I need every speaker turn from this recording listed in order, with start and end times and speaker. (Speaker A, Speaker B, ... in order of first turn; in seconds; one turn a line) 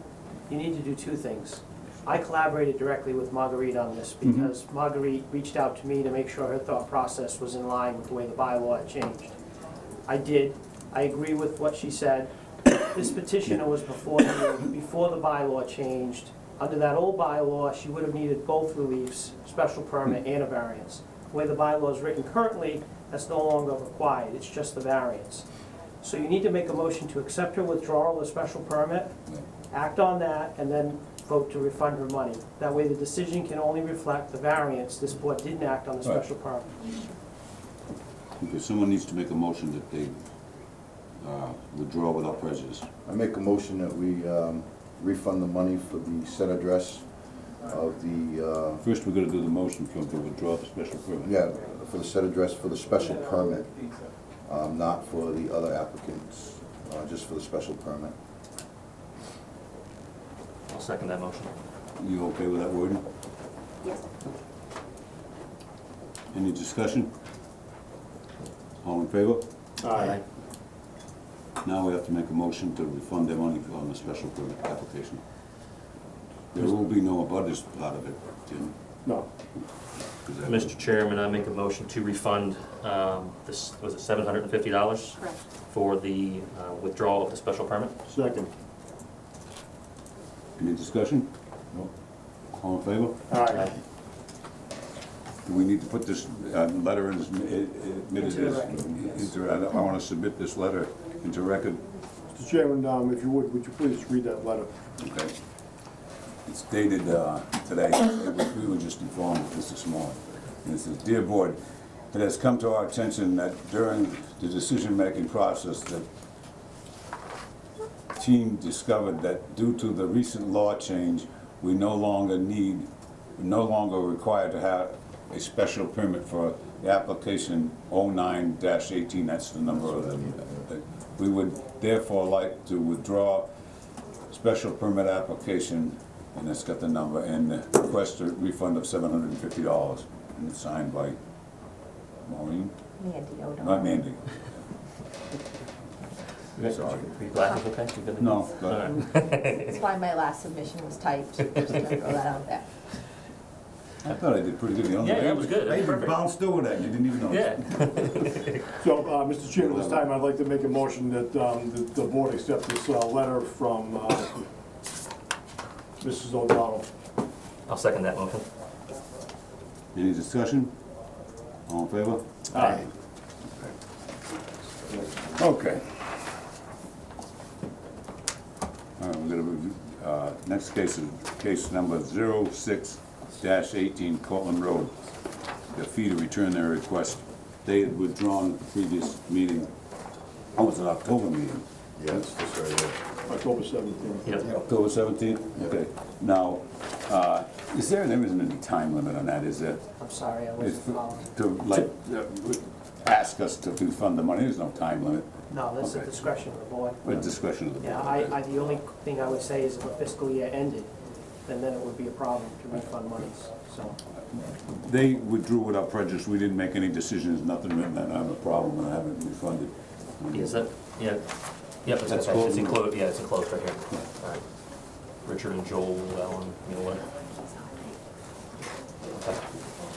Speaker A: 0.5-9.3
Speaker A: 10.1-25.4
Speaker A: 26.0-29.1
Speaker A: 29.7-36.8
Speaker B: 38.4-40.2
Speaker B: 41.2-42.9
Speaker C: 43.0-48.8
Speaker B: 48.8-51.3
Speaker C: 51.2-53.7
Speaker C: 54.4-58.1
Speaker D: 60.7-61.5
Speaker B: 62.0-63.0
Speaker B: 66.3-67.1
Speaker B: 68.8-69.4
Speaker E: 69.8-70.2
Speaker B: 71.6-75.2
Speaker B: 76.5-78.7
Speaker B: 80.2-80.7
Speaker D: 80.4-88.0
Speaker E: 88.0-88.5
Speaker B: 90.6-91.3
Speaker B: 92.6-93.2
Speaker E: 93.3-93.7
Speaker B: 95.4-101.8
Speaker E: 102.3-104.7
Speaker B: 105.0-105.3
Speaker B: 106.5-111.6
Speaker B: 112.1-116.0
Speaker B: 118.1-133.5
Speaker C: 129.7-130.7
Speaker B: 134.3-141.2
Speaker B: 142.2-142.8
Speaker F: 143.0-144.0
Speaker B: 143.6-144.4
Speaker D: 146.6-149.6
Speaker B: 146.7-147.1
Speaker B: 148.2-149.2
Speaker F: 149.3-152.6
Speaker B: 154.0-157.6
Speaker D: 155.0-156.2
Speaker D: 157.3-158.6
Speaker E: 158.8-164.4
Speaker B: 159.5-160.0
Speaker E: 166.0-166.9
Speaker D: 167.7-168.4
Speaker B: 169.9-170.7
Speaker B: 171.7-172.3
Speaker E: 172.5-172.9
Speaker B: 175.2-175.8
Speaker B: 179.0-184.9
Speaker B: 185.7-189.7
Speaker B: 190.5-192.3
Speaker C: 192.0-193.0
Speaker E: 193.2-194.5
Speaker D: 194.2-194.6
Speaker B: 194.5-199.8
Speaker A: 200.0-201.3
Speaker B: 200.6-205.3
Speaker A: 205.5-207.2
Speaker B: 205.8-206.1
Speaker B: 207.0-208.4
Speaker A: 207.8-210.9
Speaker A: 211.4-213.9
Speaker B: 214.7-220.7
Speaker D: 220.3-221.2
Speaker D: 221.8-224.4
Speaker B: 222.1-222.8
Speaker D: 225.2-227.1
Speaker D: 229.1-229.5